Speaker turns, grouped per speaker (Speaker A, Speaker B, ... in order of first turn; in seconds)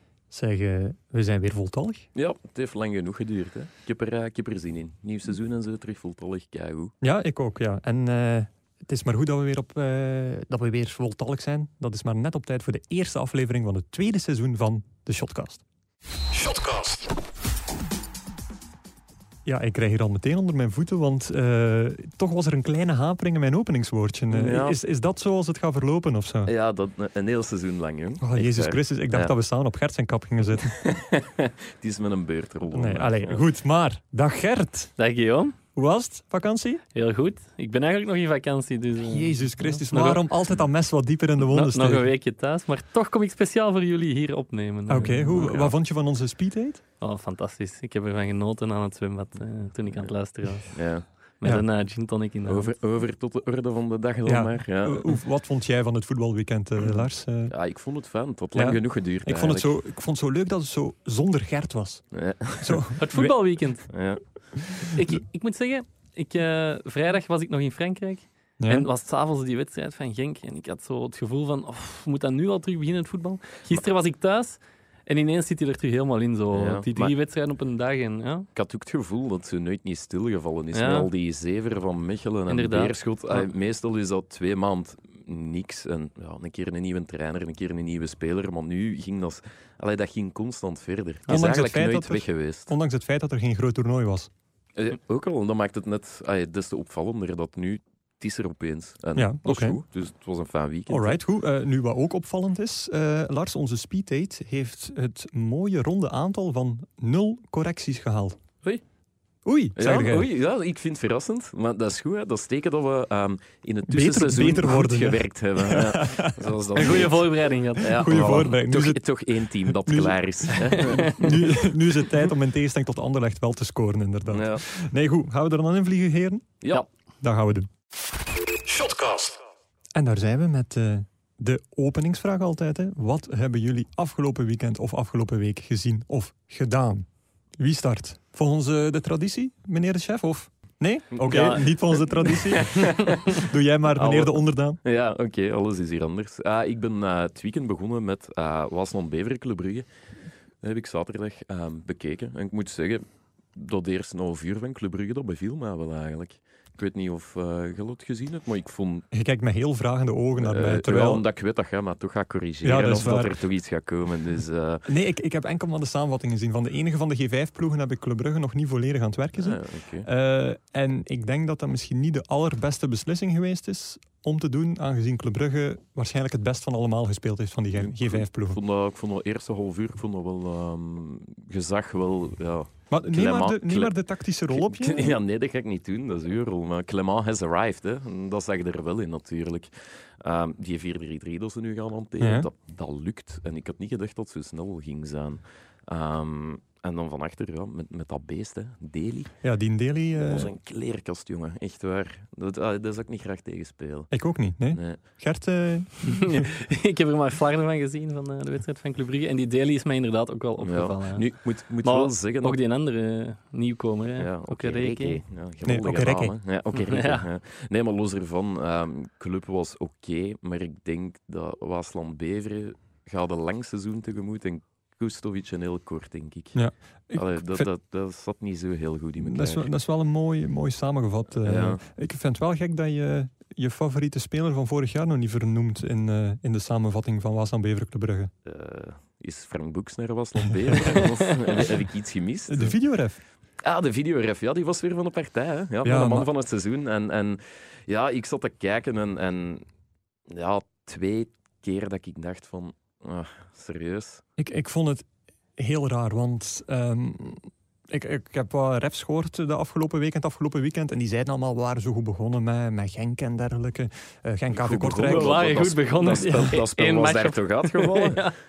Speaker A: 0.3-2.1, 7.0-15.6, 16.4-17.0, 19.4-26.5, 28.2-30.9, 32.7-34.9, 35.8-36.8, 39.0-42.1, 44.9-46.8, 54.3-57.5, 58.5-62.0, 62.6-63.3, 64.7-65.0, 68.6-68.9, 91.3-94.3, 99.2-99.8, 100.9-108.4, 109.5-110.3, 113.9-117.2, 117.8-126.6, 127.2-127.7, 128.7-129.3, 129.9-137.1, 137.6-144.8, 159.1-161.2, 162.6-163.3, 164.9-178.6, 182.9-185.2, 192.2-192.5, 199.4-200.5, 204.1-206.5, 215.7-216.3, 226.6-227.7, 229.2-238.3, 242.5-243.2, 245.8-246.3, 254.4-255.1, 255.6-265.4
Speaker B: 2.1-6.9, 24.3-24.8, 26.5-29.3, 30.6-33.4, 45.3-45.7, 50.7-51.1, 52.5-55.1, 56.8-59.7, 62.1-62.9, 63.9-64.2, 76.5-77.1, 78.5-92.7, 94.8-101.2, 109.8-121.3, 124.3-124.6, 141.2-149.9, 150.6-153.0, 153.6-159.1, 160.4-164.9, 169.4-170.1, 177.8-183.9, 184.5-199.3, 200.2-204.1, 204.7-205.0, 210.6-212.6, 214.2-226.6, 227.1-229.7, 231.4-231.8, 238.4-242.8, 243.6-249.7, 250.3-254.2, 264.5-268.3
Speaker C: 35.0-35.6, 36.9-40.2, 41.4-45.5, 47.0-50.8, 51.4-52.7, 63.0-63.9, 64.9-78.5, 80.7-81.1, 82.5-83.5, 116.8-118.3, 120.8-121.3, 206.0-211.3, 211.8-215.2, 216.8-217.3, 265.0-268.4